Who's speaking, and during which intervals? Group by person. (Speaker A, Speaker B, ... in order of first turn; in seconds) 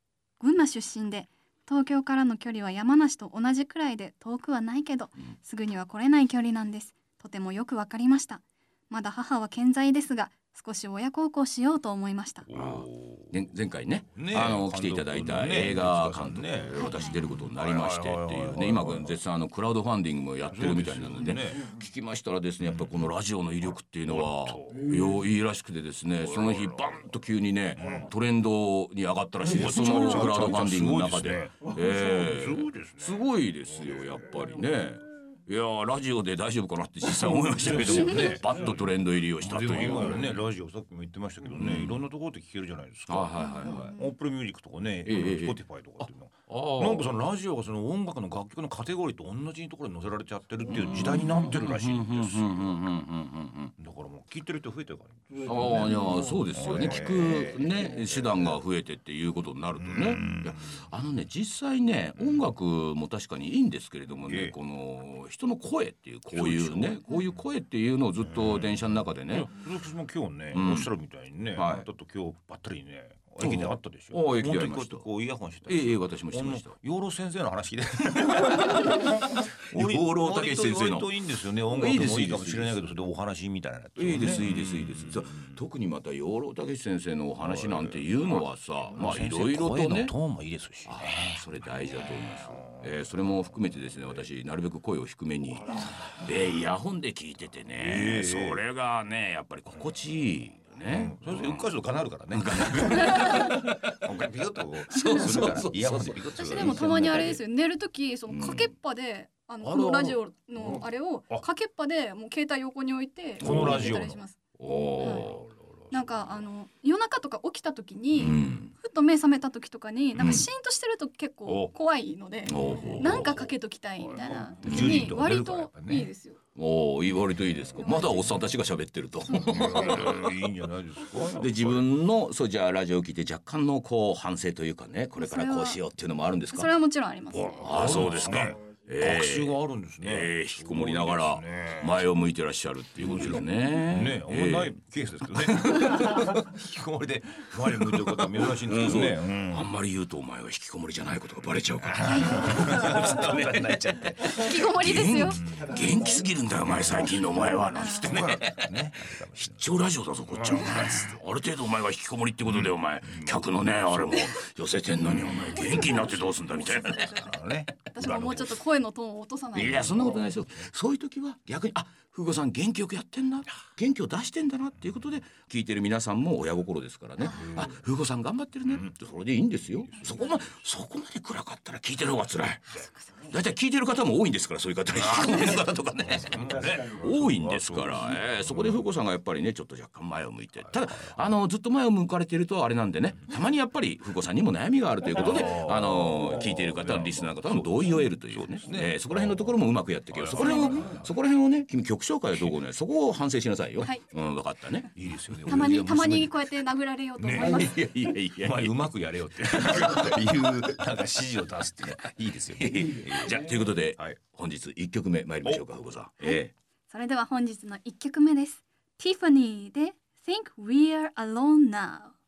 Speaker A: 0.4-12.5, 16.7-17.2, 43.4-43.9, 106.4-114.4, 115.0-115.2, 115.9-126.4, 127.8-128.2, 129.2-129.9, 135.2-135.8, 136.5-137.7, 152.0-152.7, 154.2-155.4, 157.7-158.1, 165.8-170.0, 177.2-177.6, 182.7-183.3, 200.3-200.9, 205.4-207.8, 216.2-222.1
Speaker B: 12.5-13.3, 14.1-19.2, 20.4-21.7, 22.6-23.0, 24.1-25.0, 26.2-27.0, 27.8-28.1, 29.4-33.3, 33.8-34.1, 37.3-38.8, 39.4-52.8, 53.8-58.6, 59.8-60.8, 64.2-64.5, 66.3-67.0, 68.2-68.8, 69.3-85.6, 87.4-91.4, 97.8-98.6, 100.9-107.4, 109.6-111.4, 113.4-114.2, 115.2-116.1, 121.5-121.7, 124.0-126.1, 129.4-131.9, 137.3-142.1, 142.9-149.7, 151.9-154.1, 155.5-155.8, 158.0-159.7, 160.3-161.2, 162.5-164.1, 165.1-165.8, 167.1-168.2, 178.7-178.9, 179.8-180.5, 185.0-188.8, 195.2-199.6, 200.1-201.0, 204.9-206.4, 207.2-207.7, 208.4-214.2
Speaker C: 12.5-40.4, 41.6-42.0, 43.1-44.0, 45.0-47.2, 50.6-53.7, 55.4-69.5, 70.5-70.9, 71.5-71.8, 73.4-75.1, 75.7-76.7, 78.3-82.8, 84.0-90.1, 90.8-101.7, 102.3-104.0, 104.9-106.8, 108.3-108.7, 113.4-113.9, 114.6-115.5, 118.1-118.7, 120.2-120.5, 122.5-123.4, 124.6-125.2, 126.5-130.3, 131.3-136.7, 137.6-144.8, 145.3-146.4, 147.6-167.3, 168.0-168.5, 169.5-204.9, 207.2-208.9, 209.5-210.7, 212.6-216.5